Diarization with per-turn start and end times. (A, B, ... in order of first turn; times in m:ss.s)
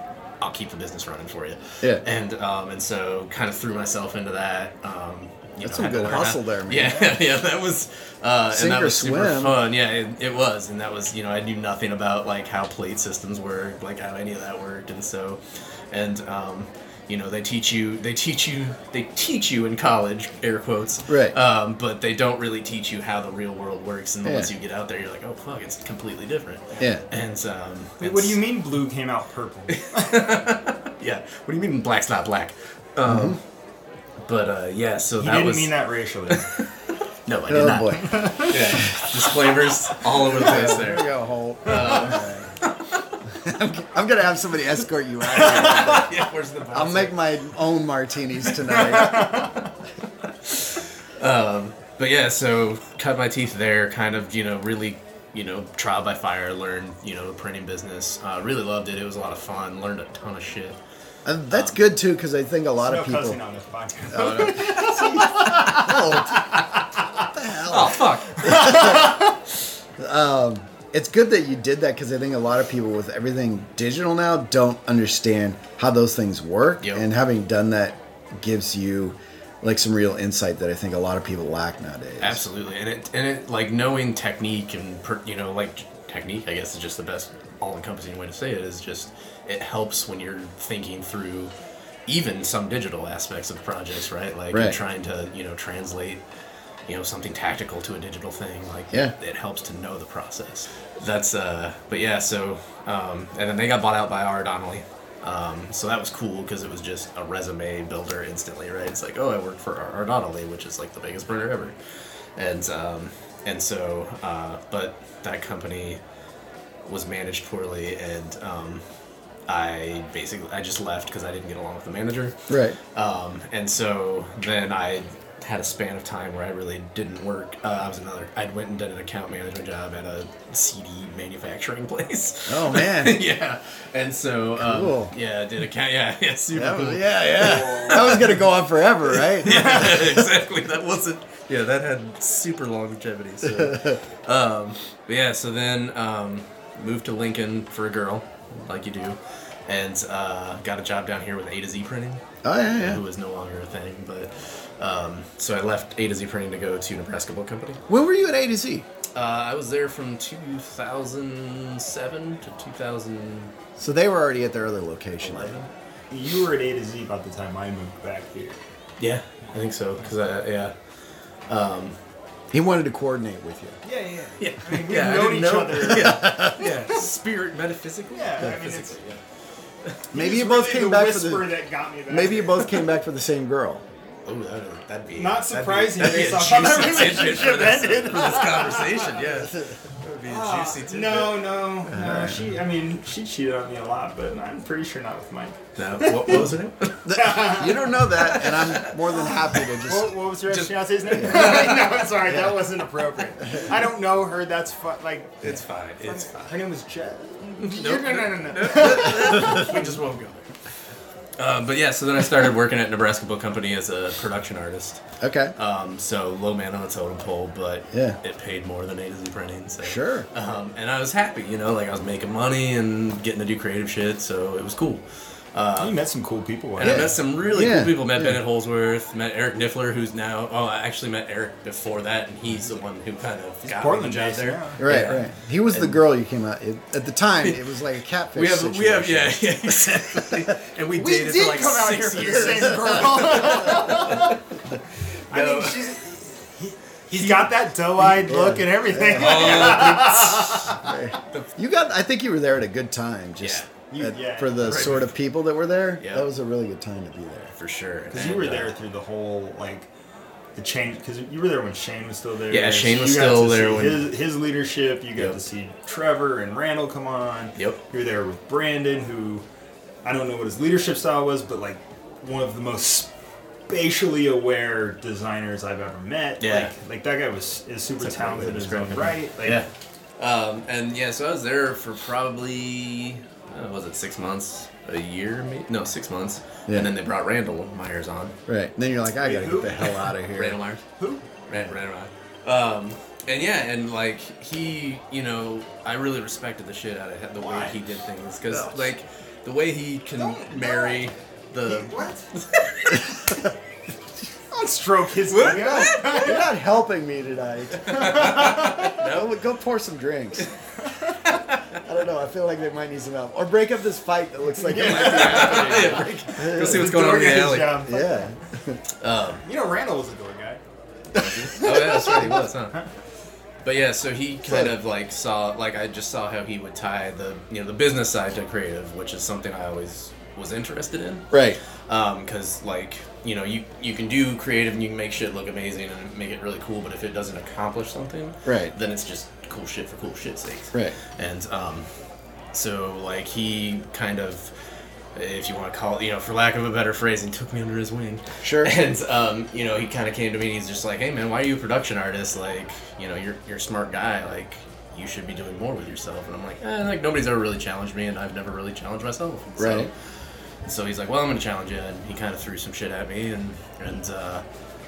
0:00.4-0:28.4 A
0:05.6-0:07.1 B
0:08.5-0:09.6 B
0:21.1-0:21.4 B
0:24.2-0:24.5 B
0:28.0-0:30.3 C
0:29.7-0:33.4 A
0:33.1-0:33.4 B
0:34.2-0:35.7 A
0:35.2-0:36.5 C
0:36.3-0:41.1 A
0:37.5-0:38.7 B
0:38.0-0:38.6 C
0:40.4-0:42.5 B
0:41.6-0:42.7 A
0:43.2-0:46.2 B
0:45.3-0:47.1 A
0:46.7-0:49.5 B
0:48.8-0:49.6 C
0:50.5-1:00.8 A
1:01.2-1:03.4 B
1:01.5-1:01.8 A
1:02.8-1:06.6 C
1:04.1-1:06.6 B
1:04.2-1:04.8 A
1:07.2-1:09.2 B
1:07.7-1:08.8 A
1:08.5-1:09.2 C
1:10.0-1:22.4 B
1:22.2-1:31.5 A
1:32.1-1:36.2 A
1:34.5-1:34.8 B
1:36.9-1:51.8 A
1:52.4-1:56.0 A
1:56.8-1:58.8 A
1:59.5-2:18.4 A
2:02.5-2:02.8 B
2:12.5-2:13.2 B
2:14.6-2:15.1 B
2:16.5-2:20.2 B
2:17.3-2:18.4 C
2:19.1-2:32.2 A
2:23.5-2:24.0 B
2:32.4-2:33.0 B
2:32.8-2:37.8 A
2:37.9-2:38.8 B
2:39.1-2:43.5 A
2:43.8-2:45.6 B
2:45.2-2:45.7 A
2:46.1-2:48.6 C
2:49.0-2:50.7 A
2:51.5-2:52.0 A
2:52.5-2:53.8 B
2:53.8-2:57.0 C
2:54.4-2:59.2 A
2:56.0-2:56.6 B
2:58.1-2:59.0 C
3:00.1-3:01.5 B
3:00.1-3:02.8 C
3:02.1-3:03.8 B
3:04.2-3:11.4 A
3:05.2-3:09.1 C
3:09.1-3:09.8 B
3:10.2-3:16.5 C
3:11.9-3:12.4 B
3:15.8-3:17.1 A
3:17.0-3:20.1 B
3:17.1-3:17.9 C
3:17.6-3:19.6 A
3:19.8-3:29.9 C
3:20.5-3:22.0 A
3:25.4-3:26.5 A
3:27.6-3:30.5 A
3:31.4-3:35.0 A
3:35.2-3:35.5 B
3:35.6-3:46.0 A
3:37.9-3:38.2 B
3:39.8-3:40.3 B
3:45.8-3:47.2 C
3:46.8-3:56.0 A
3:46.8-3:48.4 B
3:53.6-3:54.8 C
3:54.8-4:00.4 B
3:58.3-4:04.4 A
4:00.9-4:04.4 C
4:05.3-4:11.0 C
4:05.3-4:05.9 A
4:07.2-4:07.5 A
4:08.1-4:17.5 B
4:09.1-4:10.6 A
4:13.4-4:13.7 A
4:13.9-4:15.1 C
4:14.6-4:15.0 A
4:16.0-4:16.3 A
4:17.6-4:18.7 A
4:18.1-4:19.9 C
4:20.6-4:29.4 C
4:22.5-4:24.1 A
4:30.0-4:33.1 C
4:33.7-4:39.6 C
4:36.4-4:36.7 A
4:38.0-4:48.4 A
4:48.5-4:50.6 B
4:49.2-4:50.0 C
4:50.4-4:50.8 A
4:51.0-4:51.3 C
4:51.5-5:03.0 A
4:57.4-4:57.8 C
5:00.2-5:01.1 C
5:01.6-5:02.3 C
5:04.5-5:06.5 C
5:05.3-5:06.4 A
5:05.5-5:10.4 B
5:07.7-5:09.3 A
5:10.9-5:11.1 C
5:11.8-5:16.9 B
5:14.6-5:18.3 C
5:14.8-5:17.9 A
5:17.8-5:18.8 B
5:19.0-5:19.4 A
5:19.4-5:20.6 C
5:21.1-5:21.4 B
5:21.1-5:22.8 A
5:21.6-5:22.9 C
5:23.6-5:31.3 A
5:31.3-5:31.6 B
5:31.9-5:41.9 A
5:38.4-5:38.7 B
5:42.5-5:44.5 A
5:45.1-5:59.9 A
5:48.4-5:48.7 B
5:59.6-5:59.9 B
6:00.6-6:04.4 A